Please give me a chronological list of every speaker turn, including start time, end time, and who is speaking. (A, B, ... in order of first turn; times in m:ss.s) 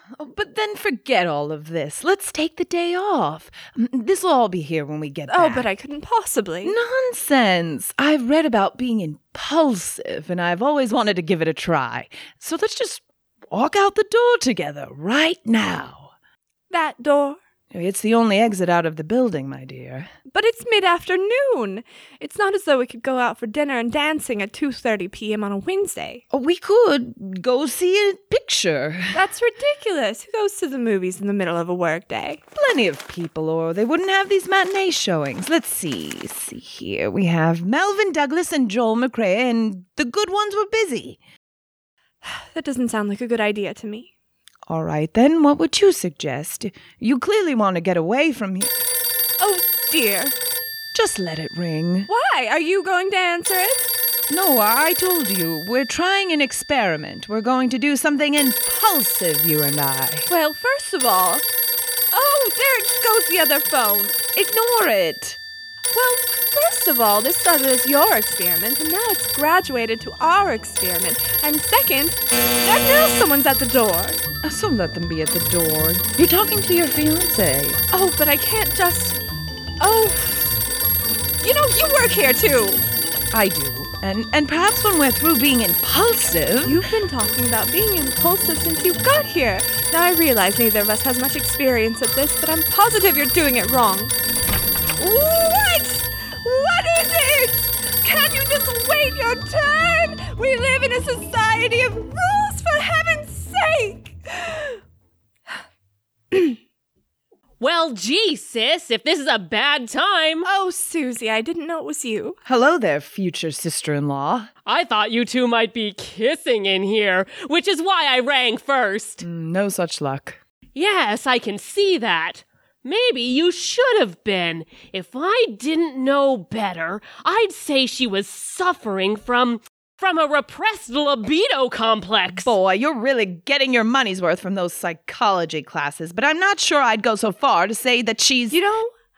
0:00.2-0:05.7 A
0:05.3-0:06.7 B
0:06.6-0:16.1 A
0:16.7-0:17.4 B
0:17.7-0:20.1 A
0:20.3-0:26.2 B
0:26.3-0:29.2 A
0:29.1-0:32.4 B
0:32.5-0:41.2 A
0:42.2-0:44.1 B
0:44.7-0:48.7 A
0:49.4-0:50.3 B
0:50.9-0:52.1 A
0:52.1-0:53.9 B
0:54.3-1:00.3 A
1:00.3-1:01.4 B
1:02.1-1:04.2 B
1:04.3-1:05.4 A
1:05.9-1:14.2 B
1:14.4-1:17.8 A
1:17.9-1:19.2 B
1:19.8-1:20.6 B
1:21.4-1:22.8 B
1:23.3-1:26.8 A
1:26.6-1:34.1 B
1:35.0-1:44.8 B
1:46.3-1:46.6 B
1:47.6-1:50.4 C
1:50.4-1:52.4 B
1:52.4-1:54.5 A
1:54.6-1:59.2 C
1:59.2-2:00.4 A
2:00.7-2:12.5 C
2:12.4-2:18.6 A
2:18.5-2:18.9 B